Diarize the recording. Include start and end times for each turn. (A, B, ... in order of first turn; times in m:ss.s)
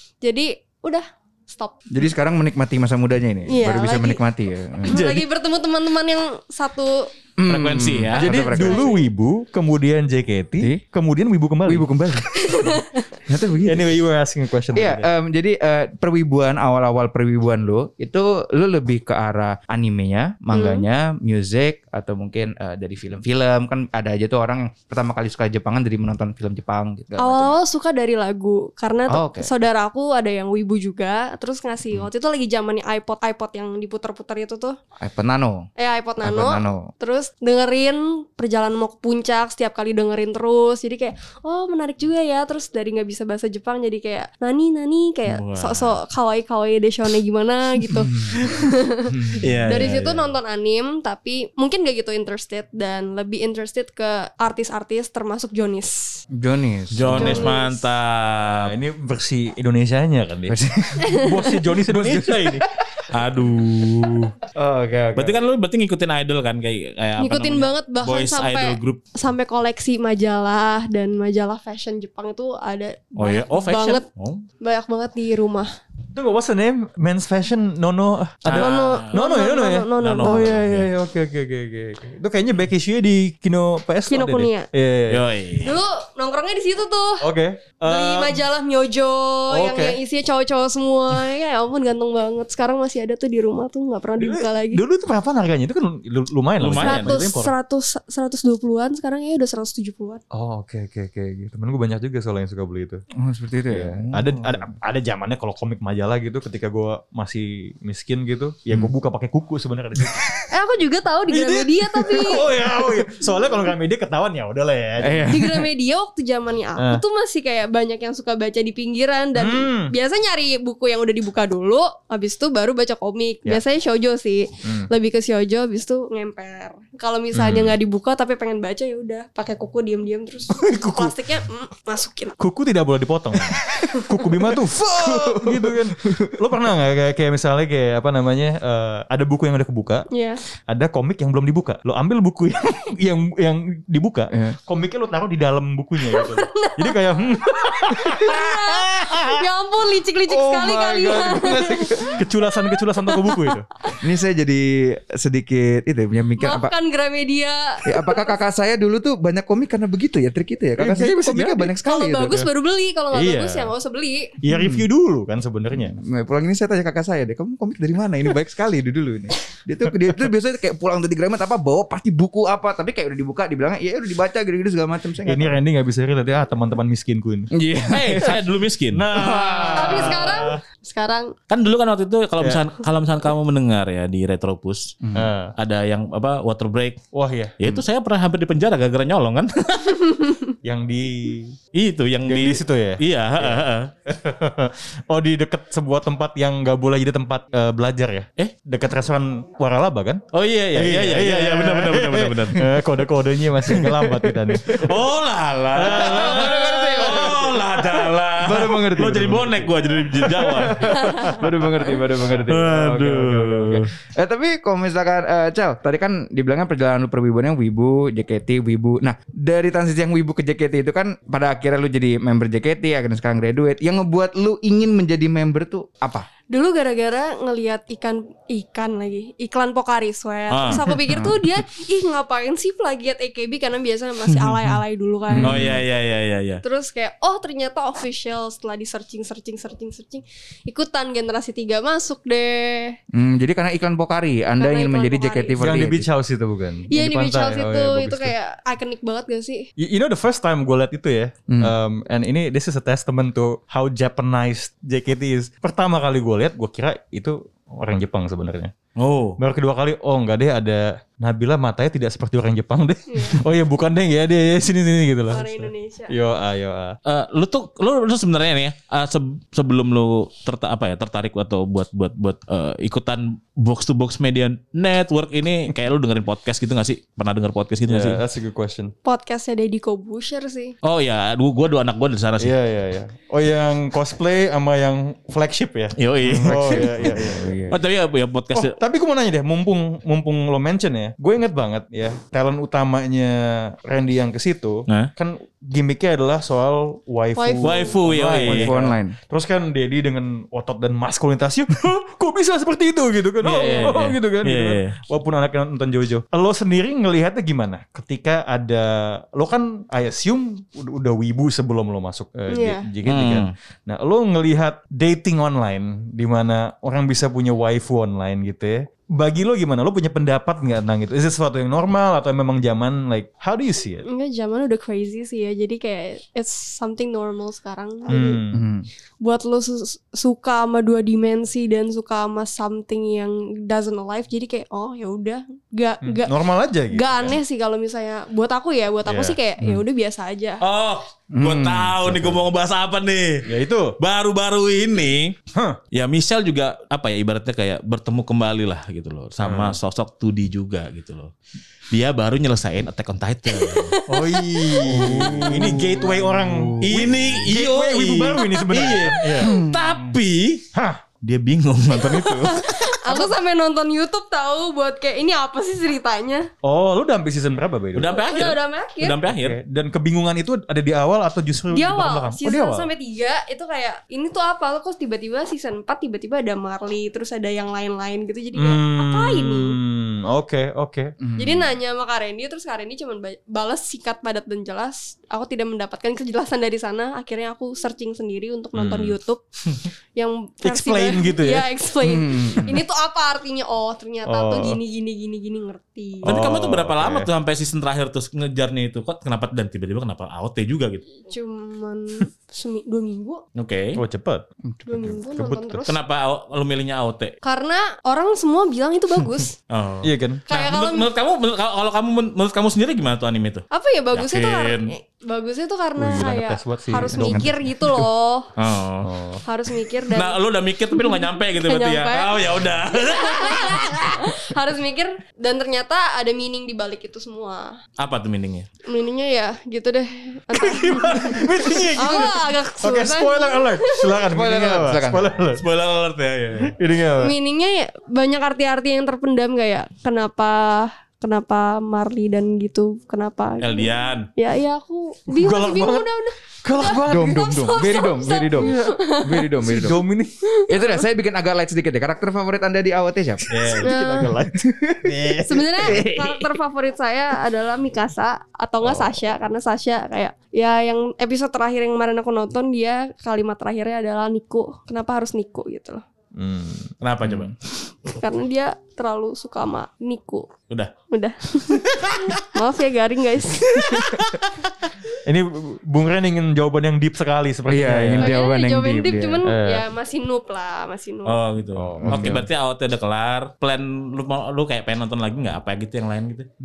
0:00.2-0:01.8 A
0:01.9-0:05.2 B
0:03.5-0:04.2 A
0:04.8-0:07.1 A
0:07.4-0:09.0 B
0:07.5-0:08.3 C
0:08.1-0:12.8 D
0:08.3-0:09.0 A
0:11.7-0:12.4 B
0:12.4-0:13.1 A
0:13.3-0:14.0 B
0:13.6-0:15.1 D
0:14.7-0:27.6 B
0:20.5-0:20.8 A
0:27.2-0:34.8 A
0:29.1-0:29.5 B
0:35.0-0:35.7 B
0:35.8-0:56.2 A
0:36.2-0:36.9 B
0:45.3-0:46.0 C
0:48.0-0:48.4 B
0:49.1-0:49.4 B
0:49.4-0:50.3 C
0:56.4-0:57.5 B
0:56.9-0:58.7 C
0:57.1-0:57.9 A
0:58.6-1:02.7 D
1:00.5-1:03.1 B
1:03.1-1:04.3 C
1:04.6-1:05.4 D
1:05.2-1:09.0 C
1:07.2-1:14.0 A
1:13.2-1:14.4 C
1:14.6-1:15.7 A
1:16.1-1:25.3 D
1:18.4-1:19.2 C
1:18.5-1:20.5 A
1:20.0-1:20.9 C
1:24.1-1:24.7 A
1:25.1-1:25.8 C
1:25.6-1:27.3 A
1:27.2-1:28.4 D
1:27.9-1:34.8 A
1:29.5-1:30.0 D
1:34.2-1:37.5 D
1:36.6-1:37.2 C
1:36.8-1:40.2 A
1:40.3-1:43.0 D
1:43.2-1:44.7 B
1:43.7-1:50.4 D
1:50.5-1:52.5 A
1:51.3-1:55.3 D
1:55.0-1:55.7 B
1:55.3-2:12.4 A
1:59.4-1:59.9 D
2:04.6-2:04.9 D
2:07.3-2:07.8 D
2:10.5-2:11.2 D
2:12.4-2:20.1 D
2:14.5-2:16.5 B
2:20.1-2:20.4 A
2:20.7-2:29.4 D
2:24.3-2:24.6 B
2:26.1-2:34.0 A
2:30.3-2:32.2 B
2:32.1-2:33.7 D
2:34.0-2:36.7 B
2:36.4-2:38.4 A
2:37.9-2:42.5 B
2:40.8-2:41.7 D
2:41.8-2:44.3 A
2:43.1-2:43.7 D
2:44.4-2:46.0 D
2:44.5-2:44.9 B
2:45.7-2:55.6 B
2:55.2-2:57.5 D
2:57.5-2:58.4 B
2:57.9-2:59.1 C
2:58.9-3:00.6 D
2:59.1-3:00.3 B
2:59.8-3:01.3 A
3:01.5-3:05.0 C
3:05.0-3:05.3 B
3:05.2-3:05.5 D
3:05.6-3:07.1 C
3:07.1-3:07.8 D
3:07.6-3:10.1 C
3:10.6-3:11.6 D
3:11.7-3:13.9 C
3:12.3-3:25.0 D
3:20.3-3:22.7 C
3:23.7-3:31.3 C
3:25.7-3:31.5 D
3:25.8-3:46.3 B
3:32.3-3:33.9 C
3:46.5-3:55.6 A
3:50.5-3:50.8 C
3:51.1-3:51.4 B
3:54.3-3:54.8 C
3:55.3-3:55.8 B
3:55.4-3:56.6 C
3:56.6-4:03.0 A
4:03.1-4:06.1 B
4:04.6-4:05.8 A
4:05.6-4:08.3 D
4:06.9-4:09.7 A
4:09.8-4:18.7 D
4:11.5-4:11.7 B
4:19.0-4:19.4 C
4:19.4-4:27.0 D
4:23.1-4:23.4 A
4:25.3-4:26.1 A
4:27.1-4:38.2 C
4:37.9-4:38.9 D
4:39.0-4:40.8 A
4:40.8-4:42.5 C
4:42.4-4:47.5 D
4:46.0-4:48.8 C
4:46.4-4:47.8 B
4:48.5-5:24.0 D
4:57.4-4:58.0 A
4:57.6-4:58.8 C
4:58.4-4:59.2 B
5:03.4-5:05.0 C
5:03.5-5:03.9 A
5:12.5-5:12.8 A
5:13.0-5:13.5 C
5:24.0-5:28.4 A
5:28.1-5:28.6 D
5:28.5-5:28.9 B
5:29.2-5:36.3 A
5:36.0-5:37.4 D
5:36.9-5:40.6 A
5:40.6-5:43.5 C
5:41.3-5:42.4 B
5:43.5-5:44.0 D
5:44.0-5:45.4 C
5:45.5-5:45.8 D
5:45.9-5:51.3 C
5:49.4-5:49.8 D
5:51.9-5:54.0 C
5:53.5-5:55.5 A
5:54.1-5:59.6 D
5:54.9-5:55.9 C
5:55.0-5:57.0 B
5:56.8-6:00.7 C
5:59.4-5:59.8 B
6:00.7-6:01.0 D
6:01.2-6:03.0 C
6:01.9-6:06.5 A
6:06.6-6:08.2 D
6:08.0-6:09.6 C
6:08.1-6:09.2 A
6:09.2-6:12.9 D
6:11.7-6:19.8 A
6:18.5-6:21.2 D
6:21.2-6:21.7 B
6:21.4-6:29.4 A
6:28.7-6:29.2 D
6:30.2-6:36.3 A
6:30.6-6:31.7 D
6:32.0-6:32.8 B
6:34.2-6:34.8 D
6:36.2-6:41.0 C
6:36.2-6:37.3 D
6:41.3-6:43.4 A
6:43.6-6:44.0 C
6:44.0-6:44.5 D
6:44.7-6:45.2 B
6:44.9-6:46.0 A
6:45.4-6:45.9 D
6:45.9-6:47.4 C
6:47.4-6:49.6 A
6:49.7-6:54.9 C
6:50.0-6:50.4 D
6:50.5-6:51.1 A
6:53.7-6:58.5 A
6:56.0-6:58.1 D
6:57.0-6:57.5 B
6:58.6-6:59.1 C
6:59.0-6:59.4 D
6:59.4-7:00.4 A
7:00.1-7:04.1 C
7:01.0-7:07.8 A
7:08.0-7:08.7 C
7:08.9-7:11.4 A
7:10.6-7:15.6 D
7:10.9-7:12.2 C
7:12.0-7:14.1 A
7:14.3-7:15.3 B
7:15.6-7:16.8 C
7:16.7-7:17.4 D
7:17.2-7:29.5 A
7:23.6-7:24.3 C
7:25.3-7:26.1 D
7:26.6-7:28.0 D
7:26.8-7:30.0 B
7:29.6-7:30.4 D
7:30.5-7:31.0 A
7:30.7-7:33.7 B
7:33.5-7:33.9 C
7:33.5-7:36.1 D
7:33.8-7:34.3 A
7:34.5-7:36.2 B
7:35.5-7:46.0 A
7:38.8-7:39.2 D
7:46.3-7:46.9 D
7:47.0-7:47.6 C
7:48.1-7:50.5 A
7:51.1-7:54.3 A
7:53.9-7:54.2 B
7:55.2-7:58.4 D
7:57.7-7:59.4 B
7:58.2-8:01.4 A
7:59.4-7:59.8 D
8:01.3-8:06.5 C
8:01.7-8:02.5 D
8:02.0-8:02.4 B